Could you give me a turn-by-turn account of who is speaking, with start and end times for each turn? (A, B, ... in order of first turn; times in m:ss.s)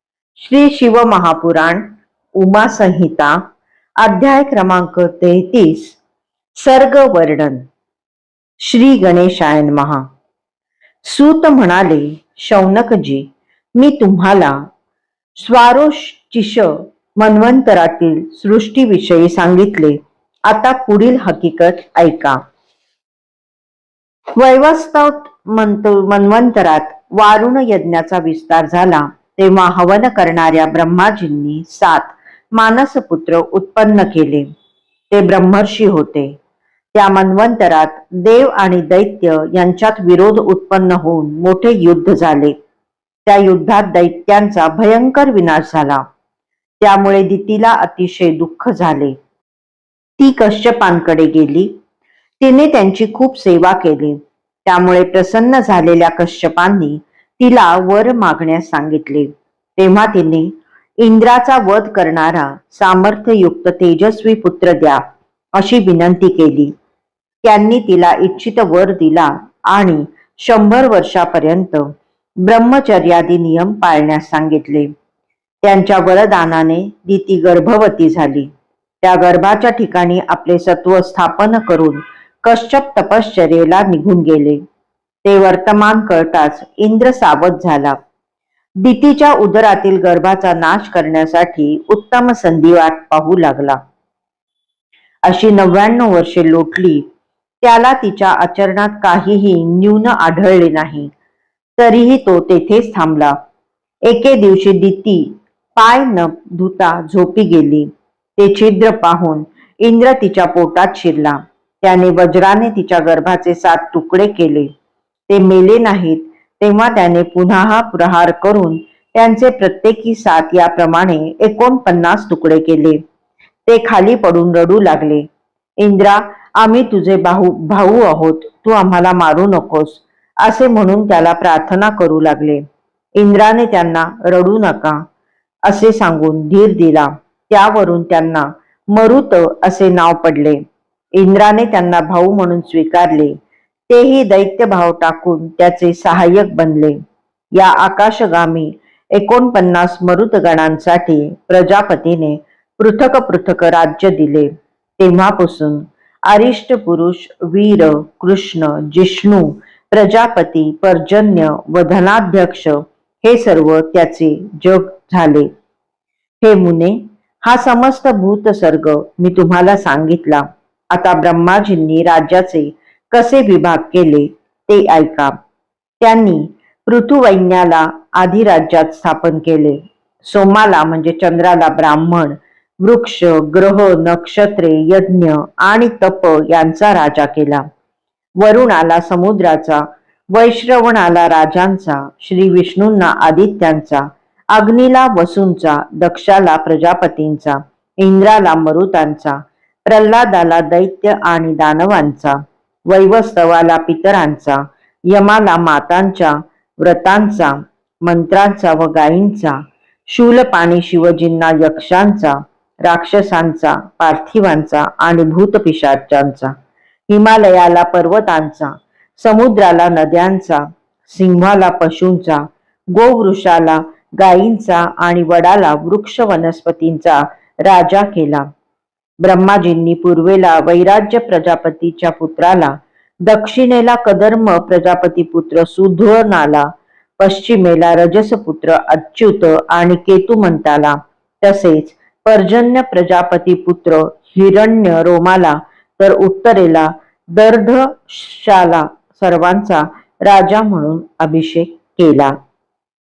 0:00.4-0:01.8 A
0:02.4-0:03.4 A
0:04.0-0:06.0 A
0:06.6-0:07.6 A
0:08.6-0:10.0 A
0:11.0-0:13.2 A
0:13.8-0:14.6 A
0:15.4-0:22.4 A
0:24.4-0:34.5 A
0:35.1-0:36.4 A
0:36.9-0:42.5 A
0:43.2-0:46.0 A
0:46.8-0:49.2 A
0:50.2-0:51.7 A
0:52.4-1:05.0 A
1:05.6-1:06.7 A
1:07.4-1:11.9 A
1:12.4-1:14.9 A
1:15.6-1:18.5 A
1:19.0-1:24.6 A
1:25.2-1:28.0 A
1:28.8-1:33.8 A
1:35.2-1:37.0 A
1:37.6-1:41.1 A
1:41.8-1:43.4 A
1:44.0-1:54.7 A
1:55.3-2:03.0 A
2:03.6-2:05.3 A
2:05.8-2:12.6 A
2:13.2-2:15.0 A
2:15.7-2:20.6 A
2:21.2-2:23.3 A
2:23.9-2:27.0 A
2:27.5-2:45.5 A
2:46.4-2:55.3 A
2:56.0-3:07.6 A
3:08.4-3:36.5 A
3:37.1-3:48.4 A
3:49.2-4:12.3 A